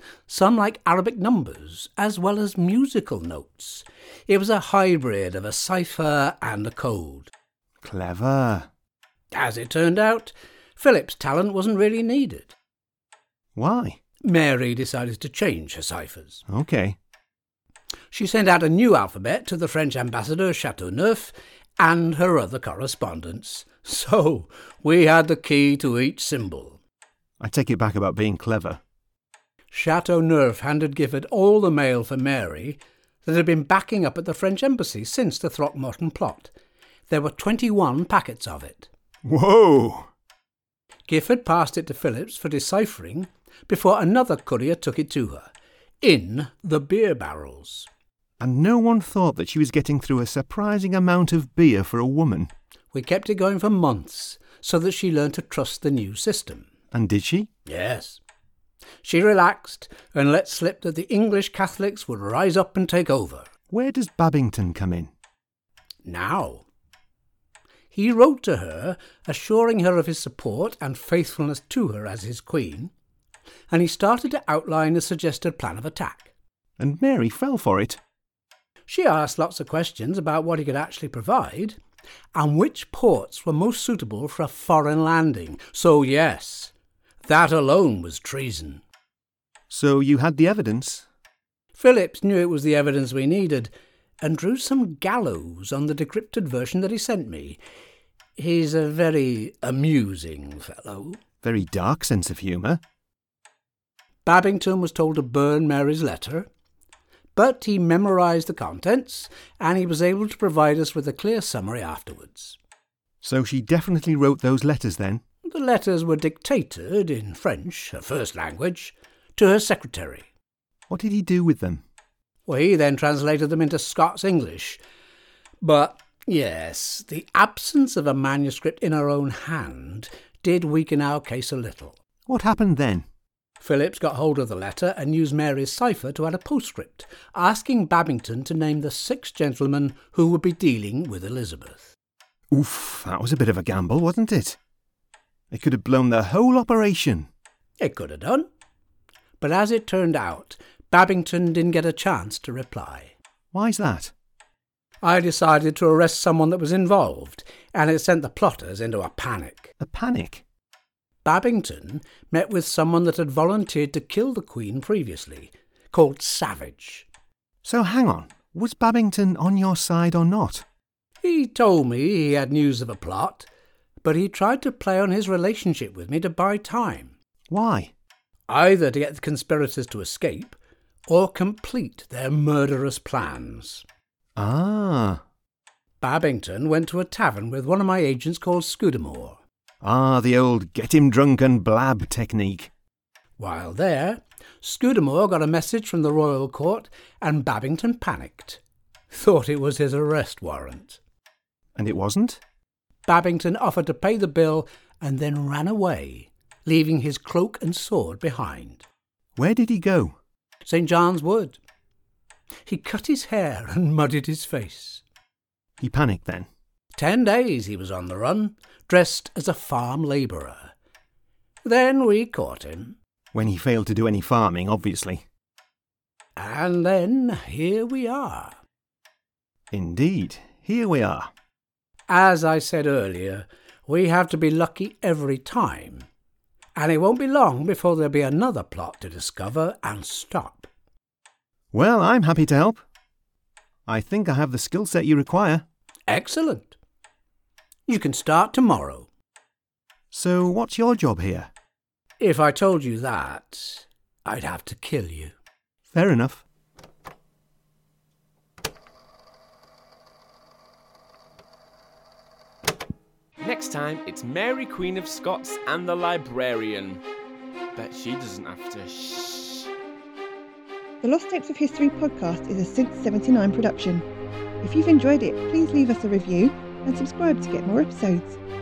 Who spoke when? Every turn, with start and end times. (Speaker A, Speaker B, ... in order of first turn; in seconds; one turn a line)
Speaker A: 0.3-7.3
Speaker B: 7.8-8.7
Speaker A: 9.3-12.5
Speaker B: 13.6-14.0
Speaker A: 14.2-16.4
Speaker B: 16.5-16.9
Speaker A: 18.1-26.8
Speaker B: 27.4-28.8
Speaker A: 29.7-36.5
Speaker A: 37.1-38.9
Speaker B: 39.2-40.1
Speaker A: 41.1-45.5
Speaker A: 46.0-47.9
Speaker B: 48.4-52.5
Speaker A: 52.9-56.7
Speaker B: 56.9-57.5
Speaker A: 57.6-58.2
Speaker A: 59.0-63.5
Speaker B: 63.7-65.1
Speaker A: 66.0-66.6
Speaker A: 67.9-72.9
Speaker A: 73.7-76.3
Speaker B: 76.8-78.0
Speaker A: 78.9-81.8
Speaker A: 82.3-86.7
Speaker A: 87.2-88.8
Speaker B: 89.7-91.0
Speaker A: 91.7-97.6
Speaker A: 98.4-101.2
Speaker B: 101.4-102.8
Speaker A: 104.2-106.5
Speaker A: 107.3-112.6
Speaker B: 113.2-115.2
Speaker A: 115.4-120.3
Speaker B: 120.9-121.8
Speaker A: 122.5-124.8
Speaker A: 125.6-132.0
Speaker B: 132.3-133.0
Speaker A: 133.6-141.9
Speaker B: 142.5-144.6
Speaker B: 145.5-147.3
Speaker A: 147.8-148.5
Speaker A: 149.4-153.1
Speaker B: 153.5-154.1
Speaker A: 155.0-159.7
Speaker B: 159.8-160.4
Speaker A: 161.2-167.1
Speaker B: 167.6-170.6
Speaker A: 171.2-173.5
Speaker A: 174.0-177.1
Speaker B: 177.5-177.9
Speaker A: 178.5-183.8
Speaker B: 184.4-185.2
Speaker A: 186.0-189.4
Speaker B: 189.8-192.7
Speaker A: 193.4-201.0
Speaker B: 201.8-202.4
Speaker A: 203.1-208.8
Speaker B: 209.4-210.2
Speaker A: 210.6-211.6
Speaker A: 212.7-215.0
Speaker B: 215.8-216.5
Speaker A: 216.9-220.7
Speaker A: 221.6-222.9
Speaker B: 223.3-225.2
Speaker A: 226.4-228.6
Speaker B: 229.7-231.3
Speaker A: 232.1-236.1
Speaker A: 236.8-240.7
Speaker B: 241.7-242.8
Speaker B: 243.9-245.6
Speaker A: 246.1-246.7
Speaker A: 247.9-249.1
Speaker B: 250.1-251.5
Speaker A: 252.2-255.3
Speaker B: 255.9-256.4
Speaker C: 263.4-267.0
Speaker C: 267.7-269.7
Speaker D: 271.0-274.0
Speaker D: 274.6-278.4